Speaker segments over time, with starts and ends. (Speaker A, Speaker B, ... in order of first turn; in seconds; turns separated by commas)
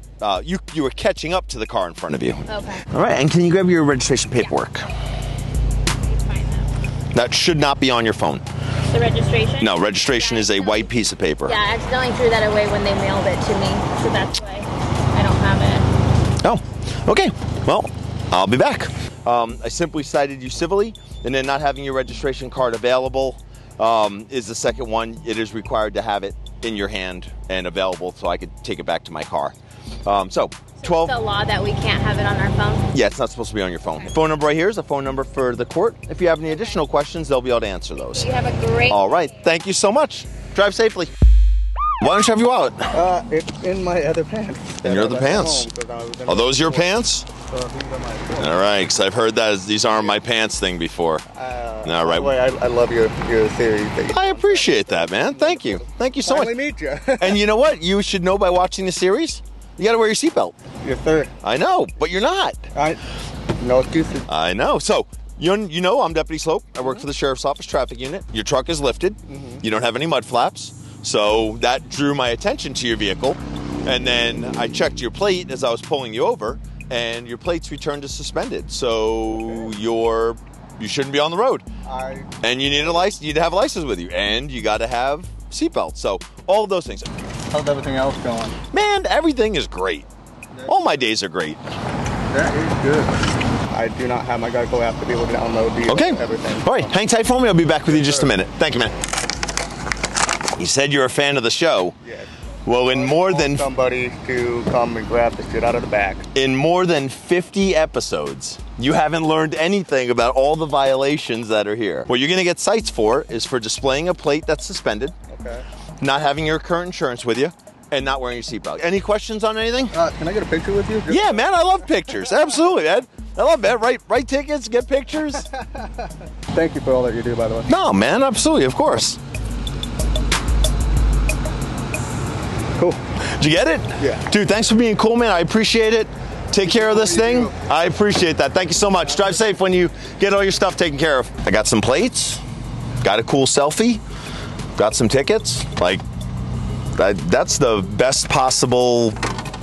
Speaker A: 0.2-4.9, Speaker B: 2.5-2.9, Speaker B: 4.4-4.7, Speaker B: 5.9-6.7, Speaker A: 7.1-8.4, Speaker B: 8.9-10.9, Speaker A: 9.6-11.6, Speaker B: 11.4-15.9, Speaker A: 16.4-31.1, Speaker B: 30.8-32.9, Speaker A: 32.9-38.3, Speaker B: 36.5-36.8, Speaker B: 38.0-39.5, Speaker A: 38.9-41.1, Speaker A: 42.0-42.9, Speaker C: 42.9-48.6, Speaker A: 44.8-45.7, Speaker A: 46.2-47.3, Speaker A: 48.4-51.2, Speaker C: 51.3-57.4, Speaker A: 51.8-52.3, Speaker A: 54.1-56.5, Speaker A: 57.2-60.5, Speaker C: 60.8-61.3, Speaker A: 61.4-62.7, Speaker C: 62.7-63.0, Speaker C: 63.6-64.3, Speaker A: 64.3-81.7, Speaker C: 69.3-69.6, Speaker C: 79.3-79.7, Speaker C: 81.8-83.1, Speaker A: 82.4-87.1, Speaker C: 87.5-88.6, Speaker A: 88.7-90.1, Speaker C: 90.5-91.1, Speaker A: 90.7-91.6, Speaker C: 92.3-93.1, Speaker C: 93.7-96.9, Speaker A: 95.9-98.9, Speaker C: 97.9-98.3, Speaker A: 100.5-102.0, Speaker C: 102.0-102.3, Speaker A: 102.7-103.7, Speaker C: 102.8-106.3, Speaker A: 106.3-115.2, Speaker C: 115.3-115.7, Speaker A: 116.0-120.0, Speaker C: 119.9-121.5, Speaker A: 121.1-125.5, Speaker C: 125.4-127.7, Speaker A: 127.7-129.2, Speaker A: 133.4-142.4, Speaker C: 134.0-134.2, Speaker C: 136.6-137.6, Speaker A: 143.0-144.0, Speaker A: 144.8-146.0, Speaker A: 146.9-149.2